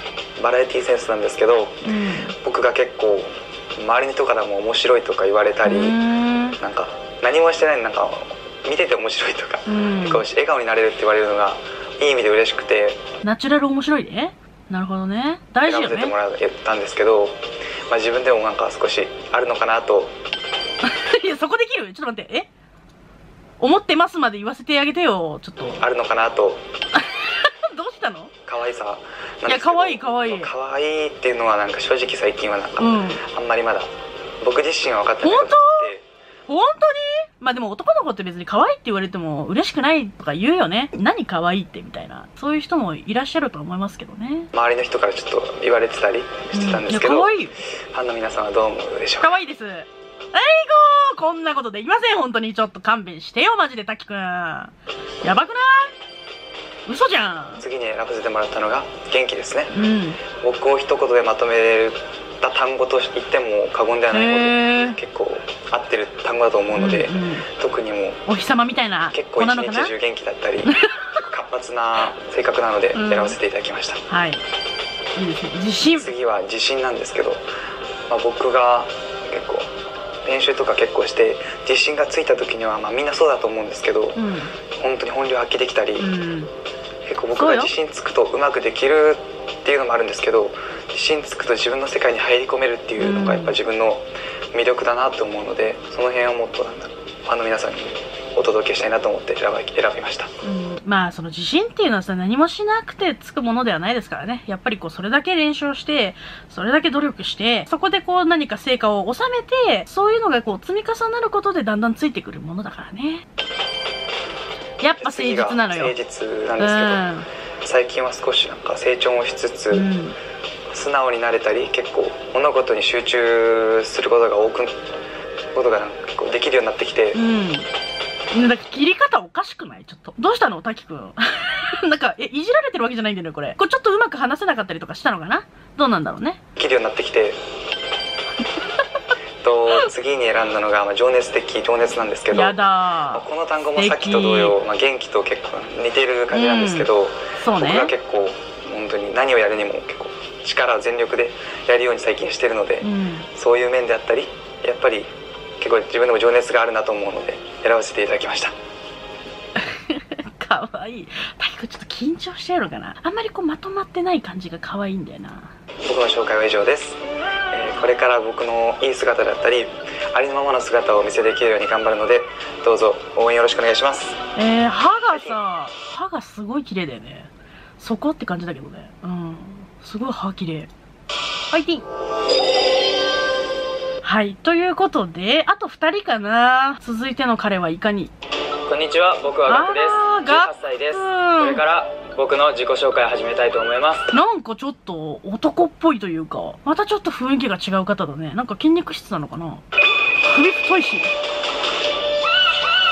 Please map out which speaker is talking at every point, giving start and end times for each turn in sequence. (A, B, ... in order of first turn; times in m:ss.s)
0:00.4-0:01.8 A
0:01.8-0:02.3 B
0:02.4-0:06.0 A
0:05.6-0:06.6 B
0:06.6-0:13.0 A
0:09.6-0:10.2 B
0:13.2-0:16.1 B
0:15.6-0:20.1 A
0:20.8-0:22.5 B
0:23.6-0:25.8 B
0:25.8-0:26.6 A
0:26.9-0:28.3 B
0:28.4-0:36.0 A
0:29.4-0:30.5 B
0:32.8-0:33.2 B
0:35.2-0:35.9 B
0:36.5-0:44.5 B
0:44.5-0:49.3 A
0:46.5-0:47.6 B
0:49.2-0:55.9 B
0:56.9-0:57.6 B
0:57.6-0:59.7 A
0:59.7-1:00.2 B
1:00.4-1:08.2 A
1:04.1-1:05.0 B
1:06.7-1:07.5 B
1:08.3-1:09.9 B
1:09.1-1:14.0 A
1:10.7-1:11.0 B
1:12.9-1:13.4 B
1:14.1-1:14.4 B
1:15.2-1:16.1 B
1:16.0-1:17.4 A
1:18.1-1:19.7 A
1:20.2-1:24.2 A
1:24.1-1:24.5 B
1:24.8-1:26.1 A
1:26.0-1:26.5 B
1:27.0-1:40.3 A
1:27.4-1:27.7 B
1:33.0-1:33.6 B
1:40.4-1:53.2 B
1:54.8-1:55.9 B
1:55.0-1:57.0 A
1:56.6-1:57.3 B
1:57.6-1:59.9 A
1:59.7-2:00.1 B
2:00.7-2:04.8 A
2:05.5-2:07.2 A
2:07.1-2:07.7 B
2:08.3-2:16.4 B
2:16.6-2:17.4 A
2:19.4-2:22.6 A
2:22.3-2:24.5 B
2:23.1-2:38.5 A
2:26.3-2:27.9 B
2:32.8-2:33.3 B
2:39.6-2:45.5 B
2:45.8-2:54.2 A
2:54.4-3:00.7 B
2:55.1-2:55.4 A
3:01.5-3:01.8 B
3:04.0-3:08.1 B
3:08.7-3:14.1 C
3:09.4-3:11.6 B
3:14.1-3:19.6 B
3:20.2-3:21.1 B